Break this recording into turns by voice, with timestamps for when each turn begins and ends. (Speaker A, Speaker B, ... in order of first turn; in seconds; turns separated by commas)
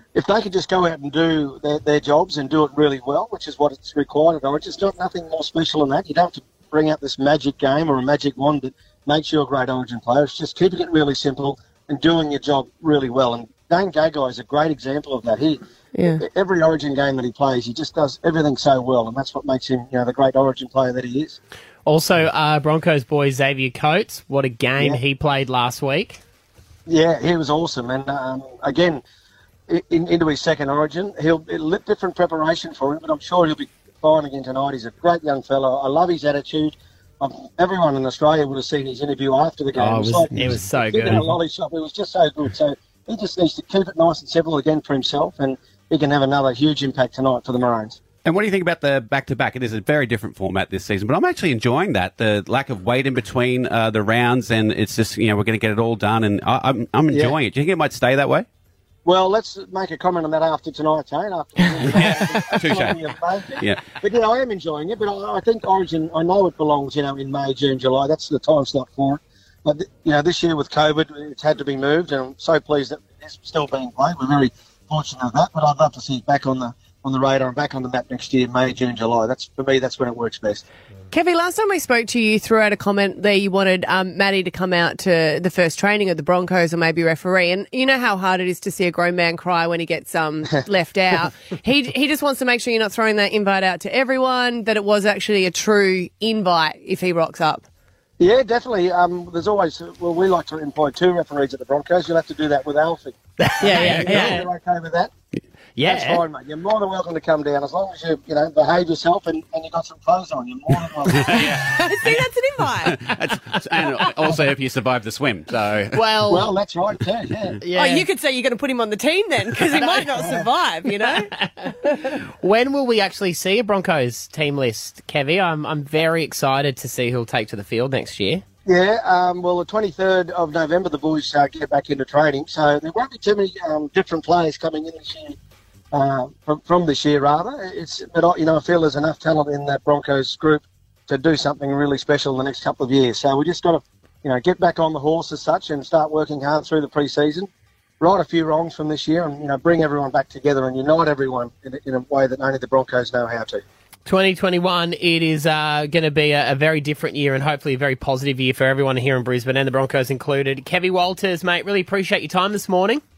Speaker A: 0.1-15.6, Speaker B: 15.9-16.2, Speaker A: 16.2-21.4, Speaker C: 21.9-26.2, Speaker A: 26.9-29.0, Speaker A: 29.7-48.0, Speaker C: 39.8-41.3, Speaker D: 48.2-58.5, Speaker A: 59.0-80.7, Speaker D: 61.8-63.0, Speaker B: 81.1-97.7, Speaker A: 98.2-105.1, Speaker C: 103.4-104.5, Speaker B: 103.6-104.3, Speaker C: 105.8-106.2, Speaker A: 105.8-111.6, Speaker D: 111.2-111.8, Speaker B: 111.8-113.0, Speaker D: 112.9-116.0, Speaker C: 115.9-116.5, Speaker A: 116.3-117.6, Speaker C: 117.6-118.1, Speaker B: 117.8-121.3, Speaker C: 119.7-120.4, Speaker C: 120.9-128.4, Speaker A: 128.7-135.4, Speaker A: 135.9-153.6, Speaker C: 154.1-163.0